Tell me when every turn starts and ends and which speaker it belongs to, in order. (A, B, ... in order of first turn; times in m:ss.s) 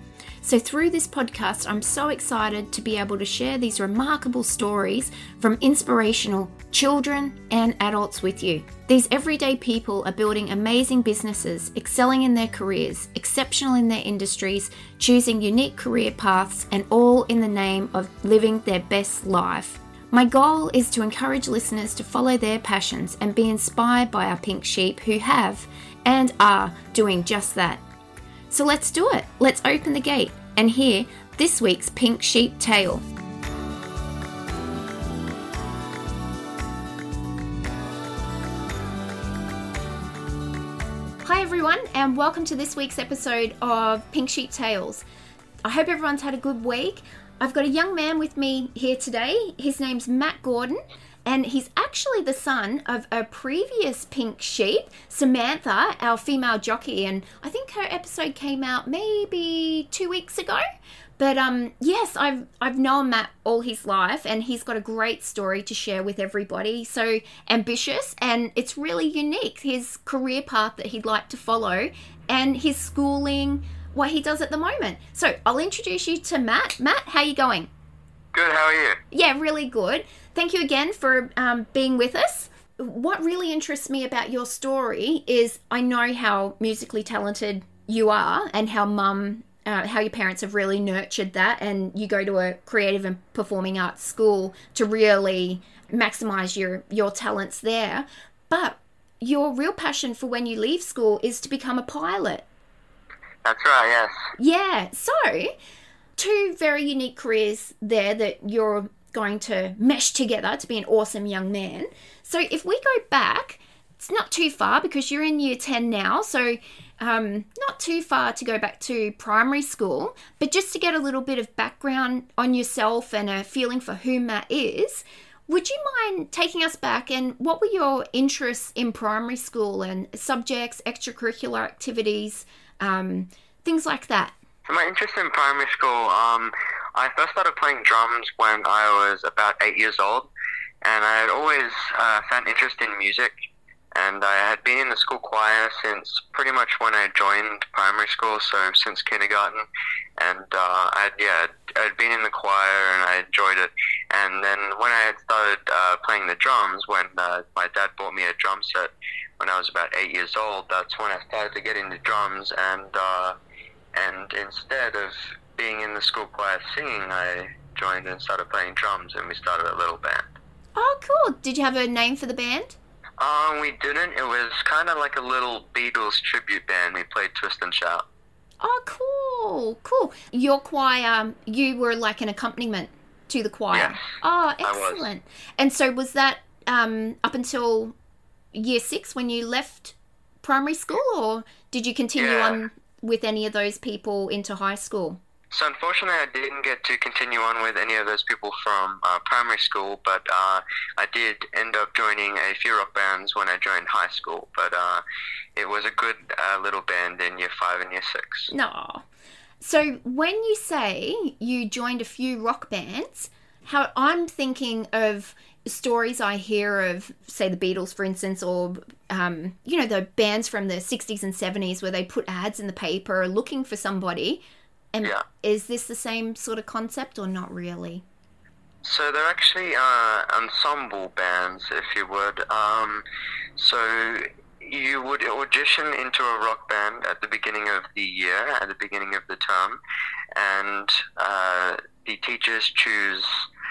0:00.4-0:27.8 A
0:28.5-0:33.1 A
0:41.2-0:45.0 A
0:45.6-1:00.6 A
1:01.2-1:17.7 A
1:18.3-1:19.0 B
1:19.1-1:42.4 A
1:43.4-1:44.1 B
1:44.4-1:45.5 A
1:46.2-2:14.4 A
2:14.7-2:20.3 B
2:20.8-2:23.3 B
2:24.0-2:29.6 B
2:30.2-2:43.4 B
2:44.0-2:50.3 B
2:50.8-2:52.8 A
2:53.2-2:58.1 B
2:58.6-3:07.9 A
3:03.7-3:04.1 B
3:04.6-3:05.1 B
3:08.5-3:15.2 A
3:12.2-3:12.6 B
3:15.5-3:25.0 B
3:25.6-3:28.5 B
3:28.5-3:29.0 A
3:29.6-3:44.4 A
3:44.9-3:48.0 A
3:48.8-3:53.0 B
3:53.6-3:59.8 B
4:00.4-4:03.3 B